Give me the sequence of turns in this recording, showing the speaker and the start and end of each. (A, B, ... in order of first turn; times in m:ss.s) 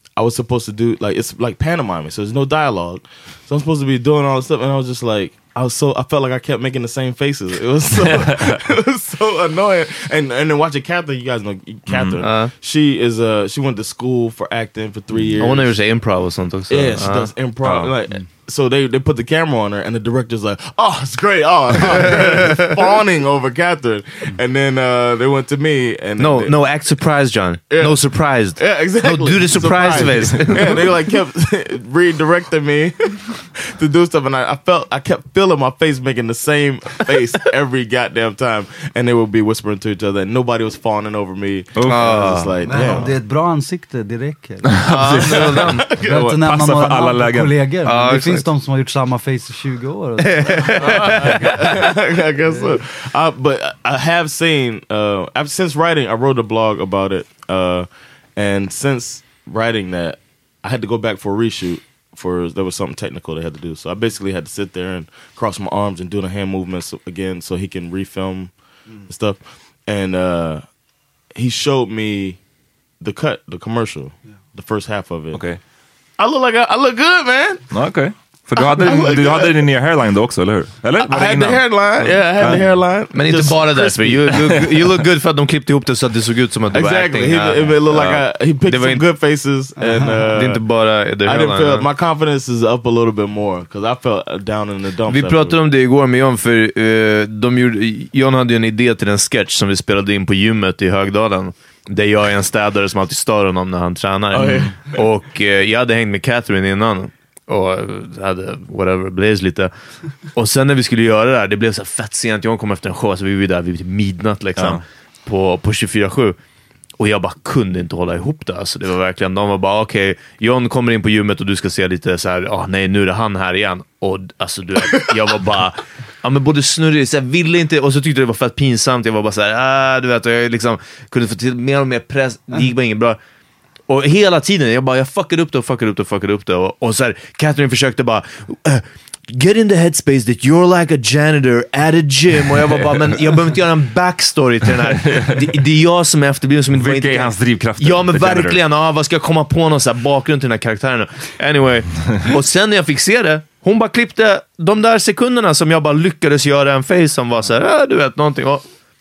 0:00.2-0:15.8 A
0:08.0-0:08.6 B
0:11.9-0:12.2 B
0:12.2-0:12.5 C
0:15.4-0:17.3 C
0:16.7-0:26.6 A
0:17.6-0:18.0 B
0:22.1-0:22.4 C
0:26.2-0:30.8 C
0:27.7-0:43.2 A
0:41.8-0:42.1 B
0:41.9-0:42.6 C
0:42.7-0:45.3 D
0:44.8-0:47.6 B
0:44.9-0:45.8 C
0:46.0-0:51.8 D
0:47.8-0:48.5 C
0:50.2-0:51.4 C
0:50.8-1:10.7 A
0:52.5-0:52.8 D
1:11.3-1:12.4 A
1:13.0-1:15.5 A
1:15.3-1:15.6 B
1:16.2-1:17.7 A
1:17.7-1:21.8 B
1:18.6-1:19.6 A
1:21.0-1:24.3 A
1:23.1-1:29.1 C
1:26.7-1:30.6 A
1:29.8-1:30.3 D
1:30.3-1:31.9 C
1:31.2-1:35.6 A
1:35.1-1:56.4 C
1:44.3-1:45.0 A
1:54.6-1:54.8 B
1:57.0-2:13.2 C
2:13.9-2:38.7 C
2:26.7-2:28.6 B